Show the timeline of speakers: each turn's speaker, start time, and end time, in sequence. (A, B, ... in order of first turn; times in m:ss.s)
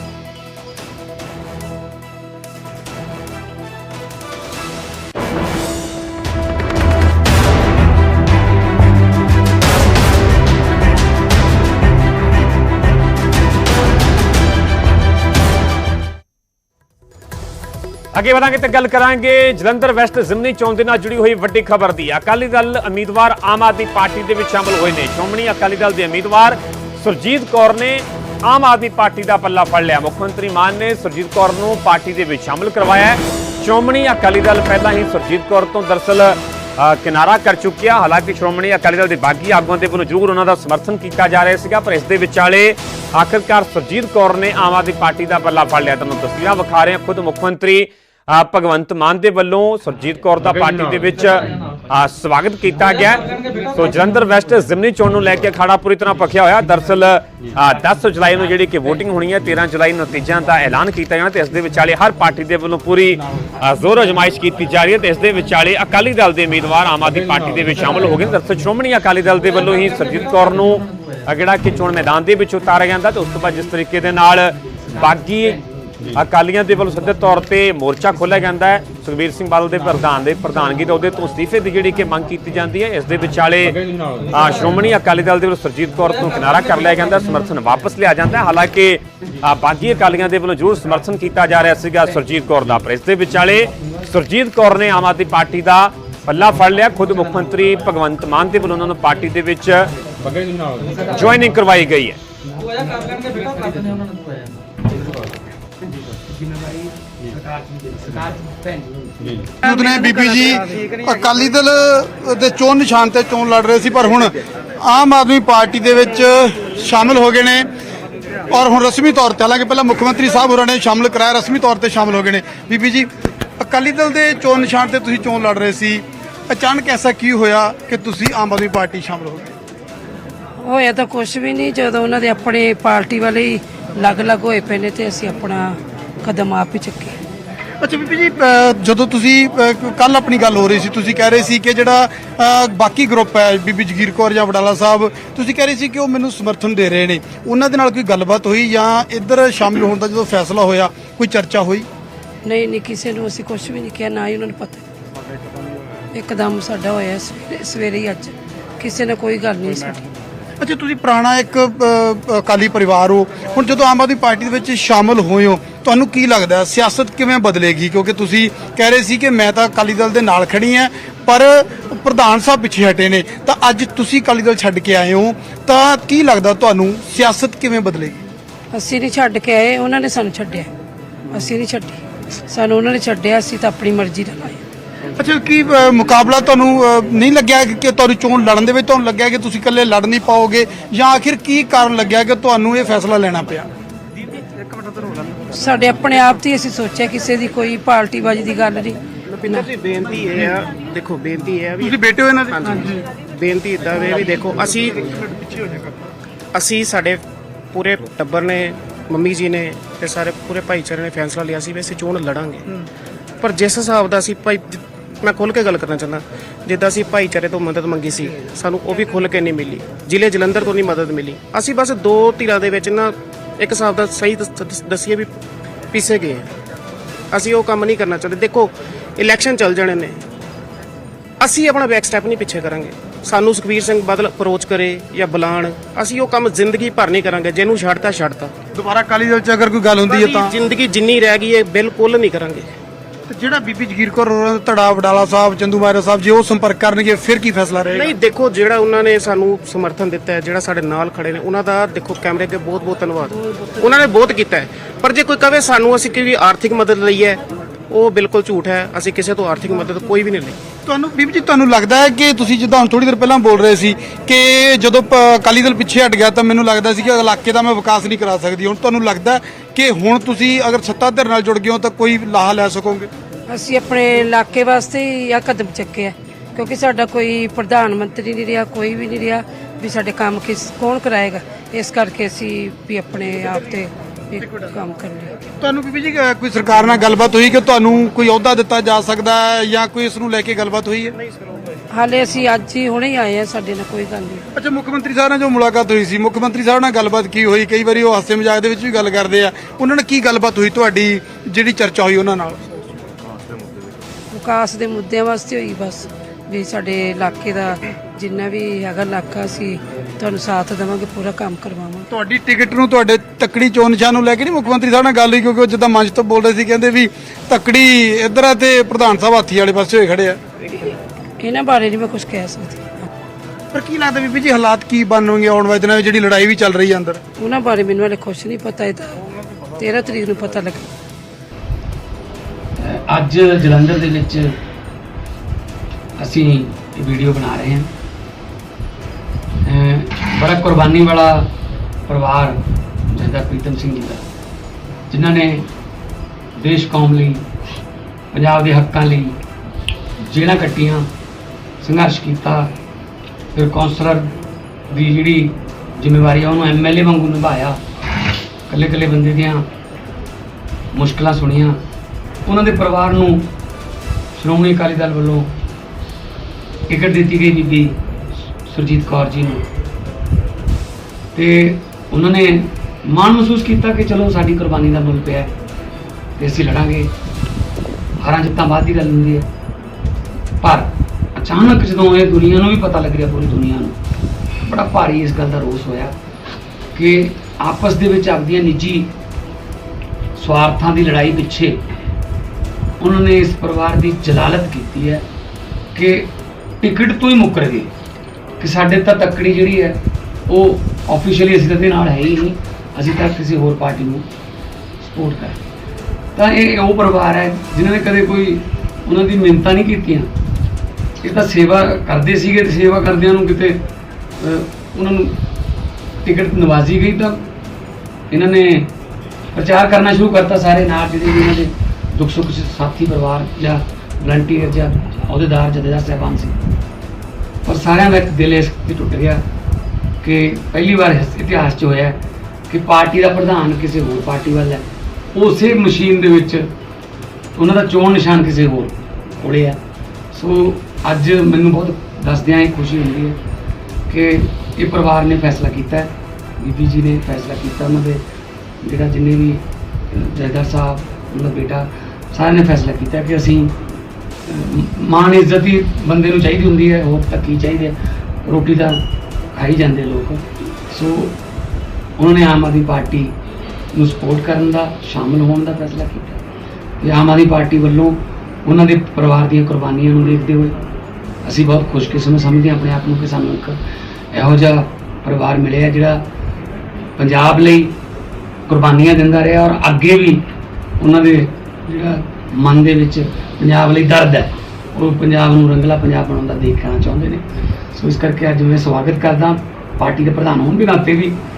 0:18.1-1:39.9 A
1:41.0-1:42.2 A
1:42.5-1:44.2 B
1:46.2-1:49.5 B
1:49.6-1:57.7 C
1:58.5-2:03.1 C
2:03.6-2:09.5 C
2:10.6-2:17.2 D
2:17.8-2:31.9 C
2:32.5-2:34.8 D
2:36.1-2:40.1 D
2:40.6-2:58.2 C
2:58.7-3:00.7 D
3:01.3-3:04.6 D
3:05.2-3:13.7 C
3:15.5-3:19.6 D
3:19.3-3:22.0 E
3:21.8-3:23.0 C
3:22.5-3:25.5 E
3:26.5-3:32.8 E
3:33.4-3:45.3 E
3:45.9-3:46.5 E
3:47.3-3:50.2 E
3:51.4-3:58.5 E
3:58.7-4:00.5 C
4:00.1-4:02.7 E
4:03.3-4:08.1 C
4:07.9-4:20.6 E
4:20.9-4:33.1 C
4:33.5-4:45.4 D
4:45.6-4:51.2 C
4:51.9-4:54.4 D
4:54.6-5:02.6 C
5:04.3-5:12.1 D
5:12.1-5:20.4 C
5:21.4-5:23.1 D
5:23.7-5:27.2 C
5:27.4-5:29.2 D
5:29.7-5:30.9 D
5:32.8-5:34.6 B
5:36.2-5:37.9 B
5:39.6-5:41.5 B
5:42.1-5:44.2 B
5:45.1-5:45.7 B
5:46.6-5:47.4 B
5:48.3-5:49.4 B
5:50.2-5:51.1 B
5:51.8-5:52.8 B
5:53.6-5:54.4 B
5:54.9-5:57.8 B
5:58.7-5:59.7 B
6:00.9-6:01.8 B
6:02.4-6:03.5 B
6:04.4-6:05.5 B
6:06.9-6:08.0 B
6:08.6-6:09.7 B
6:11.3-6:15.5 B
6:16.4-6:17.1 B
6:18.2-6:19.5 B
6:20.6-6:24.0 B
6:24.6-6:26.2 B
6:26.9-6:29.1 B
6:30.4-6:31.8 B
6:33.0-6:35.3 B
6:36.0-6:37.9 B
6:38.6-6:44.3 B
6:45.0-6:45.6 B
6:46.4-6:50.3 B
6:51.2-6:53.8 B
6:54.4-6:55.4 B
6:56.2-6:57.5 B
6:58.3-6:58.9 B
6:59.5-7:06.6 B
7:07.6-7:09.4 B
7:10.2-7:16.7 B
7:17.6-7:19.8 B
7:20.3-7:23.4 B
7:24.1-7:28.2 B
7:28.8-7:33.8 B
7:34.4-7:39.0 B
7:39.5-7:41.4 B
7:42.2-7:43.4 B
7:43.9-7:46.4 B
7:47.0-7:50.8 B
7:51.4-7:53.8 B
7:54.3-7:56.3 B
7:57.2-7:58.0 B
7:58.7-8:11.4 B